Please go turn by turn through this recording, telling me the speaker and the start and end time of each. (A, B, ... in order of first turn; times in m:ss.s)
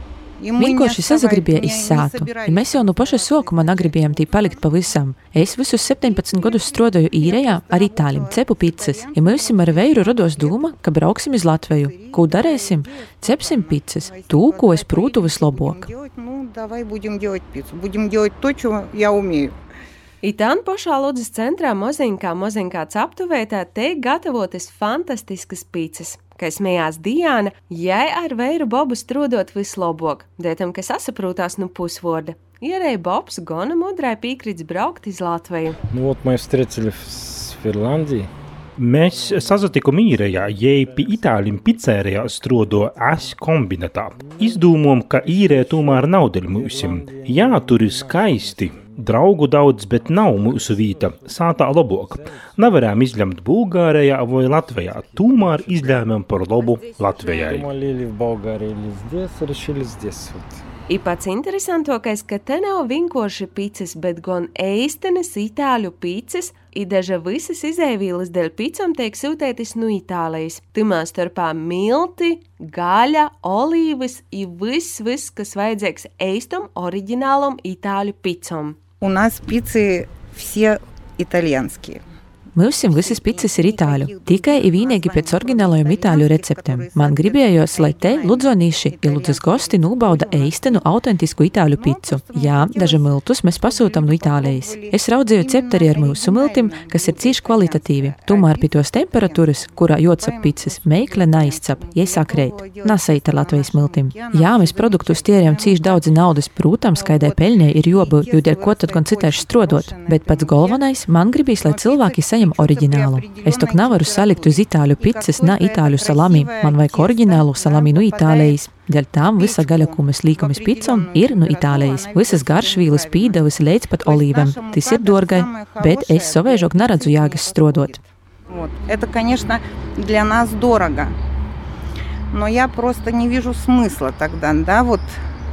0:00.4-0:05.0 A
0:00.6-0:15.9 B
0:05.6-0:10.8 A
0:11.7-0:19.5 A
0:20.2-0:35.8 C
0:35.9-0:38.3 D
0:38.8-0:57.7 E
0:39.1-0:41.8 D
0:42.7-0:43.3 D
0:44.1-0:52.8 D
0:54.6-0:56.4 D
0:57.2-1:00.6 D
1:00.9-1:18.8 C
1:19.0-1:22.0 A
1:22.6-2:07.9 B
1:22.7-1:31.0 A
1:31.7-1:46.3 A
1:46.9-1:50.9 A
1:51.4-1:58.7 A
1:59.3-2:11.1 A
2:12.3-2:15.2 A